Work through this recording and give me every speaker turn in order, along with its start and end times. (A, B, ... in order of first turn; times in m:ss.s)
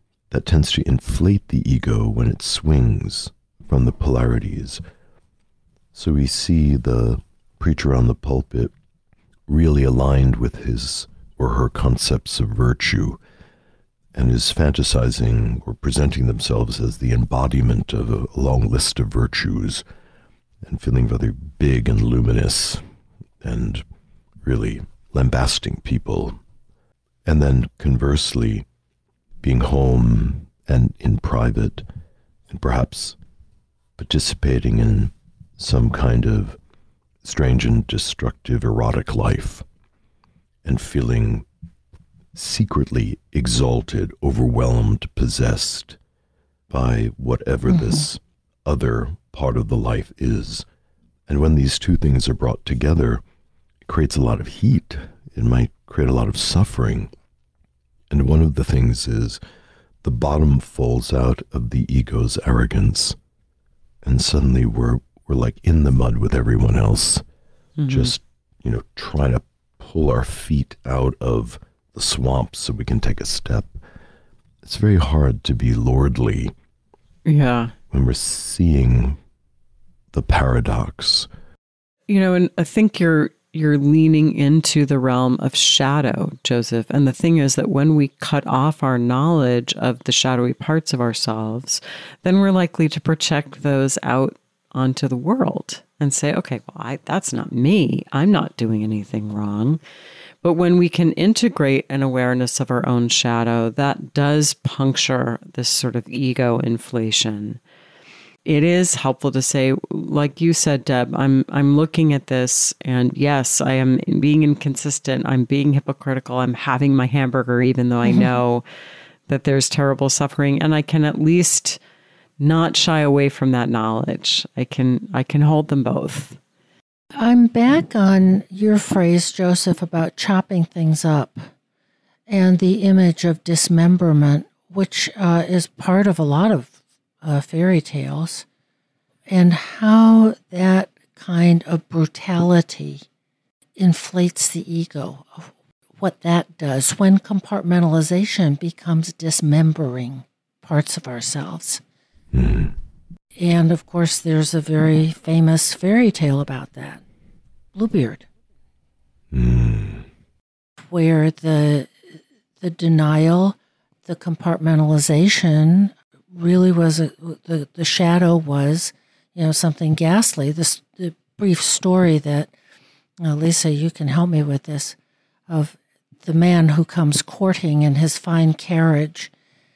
0:00.3-0:04.8 A
0:05.9-0:08.7 A
0:09.5-0:13.2 A
0:14.1-0:19.8 A
0:20.6-0:22.8 A
0:23.4-0:23.8 A
0:24.4-0:26.4 A
0:27.2-0:28.7 A
0:29.4-0:31.9 A
0:32.5-0:33.2 A
0:34.0-0:36.6 A
0:37.2-0:39.6 A
0:40.6-0:41.5 A
0:42.4-0:46.0 A
0:46.7-0:50.7 A
0:51.3-0:53.2 A
0:53.9-0:57.1 A
0:58.1-0:59.4 A
1:00.0-1:03.2 A
1:04.0-1:07.2 A
1:07.8-1:08.1 B
1:07.9-1:13.7 A
1:14.6-1:16.5 A
1:17.3-1:17.7 B
1:17.9-1:19.2 A
1:20.1-1:21.3 A
1:22.1-1:39.8 B
1:40.4-1:47.6 B
1:48.4-1:58.6 B
1:59.3-2:01.8 B
2:02.4-2:06.4 B
2:07.2-2:11.4 C
2:12.3-2:18.4 C
2:19.3-2:23.0 C
2:23.8-2:31.8 C
2:32.3-2:32.7 A
2:33.4-2:37.0 C
2:37.8-2:38.2 C
2:39.3-2:40.1 A
2:40.9-2:41.9 C
2:42.6-2:52.5 C
2:53.2-2:55.0 C
2:55.5-2:59.3 C